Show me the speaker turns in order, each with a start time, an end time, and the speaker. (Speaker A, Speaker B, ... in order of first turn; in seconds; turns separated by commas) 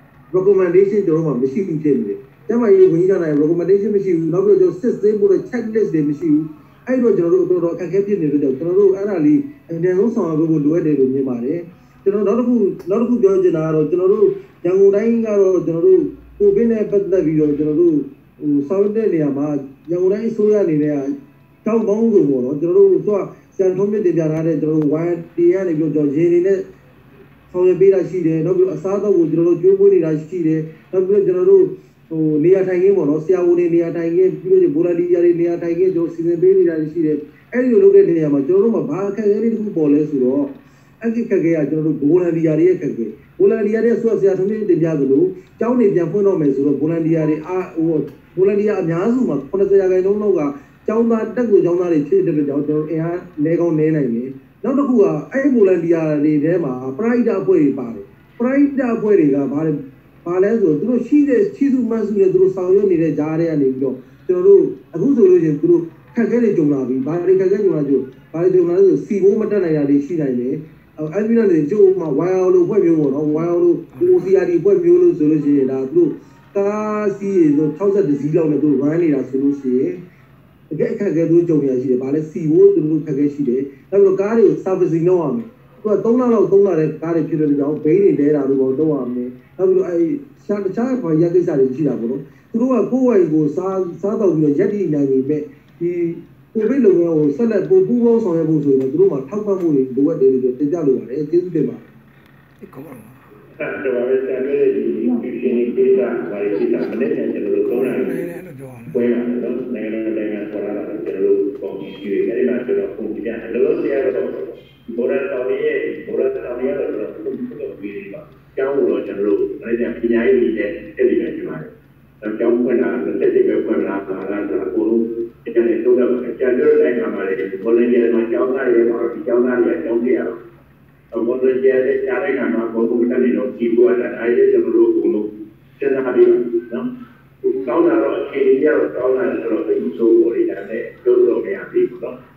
Speaker A: 0.3-26.6, Speaker A: 27.5-80.0, Speaker B: 73.9-74.3, Speaker A: 80.7-101.9, Speaker B: 102.6-103.2, Speaker C: 103.6-108.2, Speaker B: 107.7-109.1, Speaker C: 108.9-121.7, Speaker C: 122.2-130.3, Speaker C: 131.1-136.8, Speaker C: 137.4-142.1